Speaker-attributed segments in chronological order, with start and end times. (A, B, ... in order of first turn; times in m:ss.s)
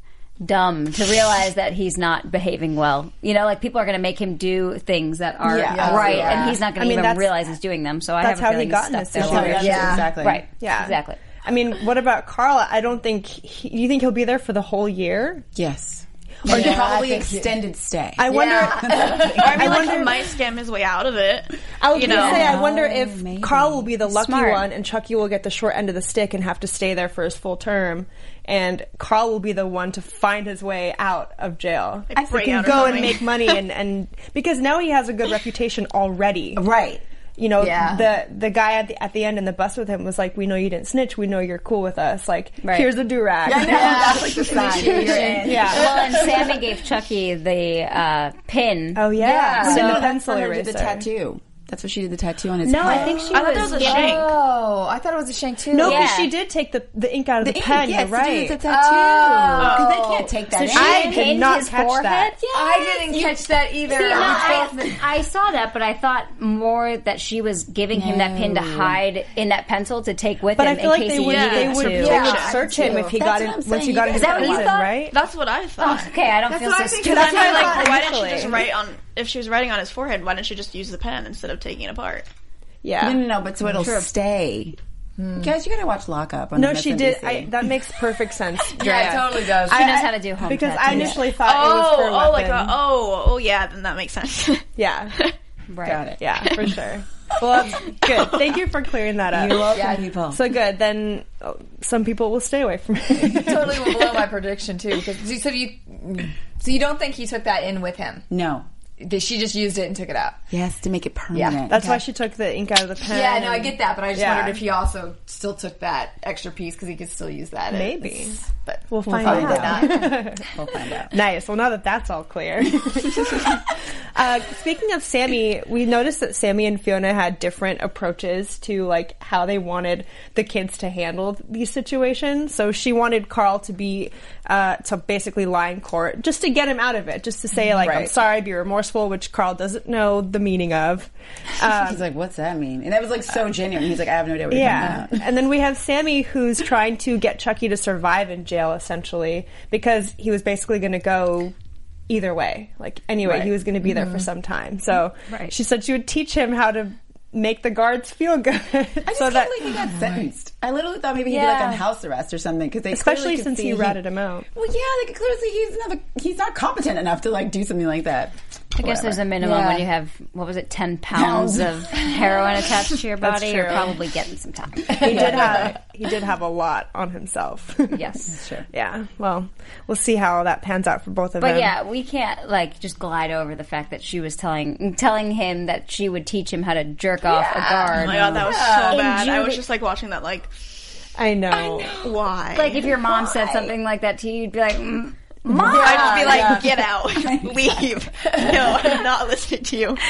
0:00.4-0:11.2 A
0:05.4-0:06.6 B
0:05.7-0:06.6 C
0:06.7-0:07.5 D
0:08.2-0:15.4 D
0:09.2-0:10.5 B
0:09.4-0:10.1 C
0:15.6-0:20.0 B
0:16.4-0:17.6 C
0:16.5-0:16.8 D
0:18.2-0:20.2 D
0:18.3-0:19.7 C
0:19.4-0:22.5 E
0:21.8-0:36.7 D
0:22.0-0:24.0 B
0:22.2-0:22.5 A
0:24.0-0:24.7 A
0:32.1-0:33.6 E
0:32.2-0:33.2 B
0:36.6-0:37.0 B
0:37.4-0:46.2 D
0:37.6-0:38.1 C
0:42.6-0:42.9 A
0:43.4-0:45.9 B
0:43.5-0:46.5 C
0:45.6-0:50.0 A
0:49.0-0:51.1 D
0:49.2-0:50.0 C
0:49.6-0:53.4 B
0:52.7-0:54.0 D
0:52.7-0:54.1 A
0:52.8-0:56.1 C
0:53.3-0:54.3 E
0:55.7-0:58.6 D
0:55.8-0:56.3 A
0:57.4-1:01.5 B
0:58.6-1:00.3 C
0:59.6-1:00.0 E
1:00.6-1:02.4 A
1:00.7-1:02.4 D
1:02.4-1:03.4 B
1:02.5-1:05.0 C
1:03.9-1:12.3 A
1:04.1-1:04.5 B
1:08.0-1:09.0 B
1:10.6-1:15.2 D
1:11.2-1:12.6 E
1:11.9-1:14.8 B
1:11.9-1:13.0 C
1:14.1-1:15.1 A
1:15.1-1:16.1 E
1:15.8-1:17.9 A
1:17.0-1:18.6 D
1:17.0-1:22.3 E
1:22.8-1:23.3 D
1:23.0-1:24.8 B
1:23.8-1:24.1 A
1:25.2-1:25.5 C
1:25.4-1:27.5 B
1:26.6-1:32.8 D
1:28.8-1:30.1 C
1:29.7-1:31.2 A
1:31.4-1:35.3 E
1:34.8-1:35.2 D
1:35.7-1:36.0 A
1:35.8-1:36.2 B
1:36.2-1:39.8 D
1:38.1-1:38.6 E
1:39.3-1:40.4 B
1:39.7-1:40.1 C
1:40.3-1:44.2 D
1:43.2-1:48.3 C
1:48.3-1:48.7 B
1:49.0-1:50.4 C
1:50.5-1:52.0 B
1:51.3-1:52.0 C
1:51.7-1:54.6 D
1:53.1-2:00.2 C
1:57.7-2:00.5 D
1:59.1-2:01.1 B
2:01.1-2:22.0 D
2:17.8-2:18.2 B
2:21.8-2:25.3 B
2:24.5-2:31.5 D
2:32.1-2:39.8 D
2:33.3-2:33.5 B
2:33.8-2:34.3 C
2:35.3-2:35.5 A
2:39.1-2:44.0 B
2:39.9-2:40.3 C
2:41.3-2:41.8 C
2:41.4-2:41.8 A
2:42.9-2:44.5 D
2:44.6-2:49.3 B
2:48.8-2:55.5 A
2:49.4-2:49.9 C
2:51.1-2:51.9 B
2:53.2-2:54.0 D
2:54.9-2:55.7 C
2:54.9-2:58.0 D
2:55.1-2:55.7 B
2:57.9-2:58.3 A
2:58.3-2:58.7 B
2:58.7-3:01.7 D
3:01.4-3:08.4 A
3:07.3-3:09.2 C
3:07.9-3:10.5 E
3:11.2-3:12.1 D
3:11.8-3:12.8 E
3:12.6-3:16.1 A
3:15.5-3:16.8 C
3:15.7-3:20.0 E
3:15.8-3:17.8 B
3:18.3-3:19.0 C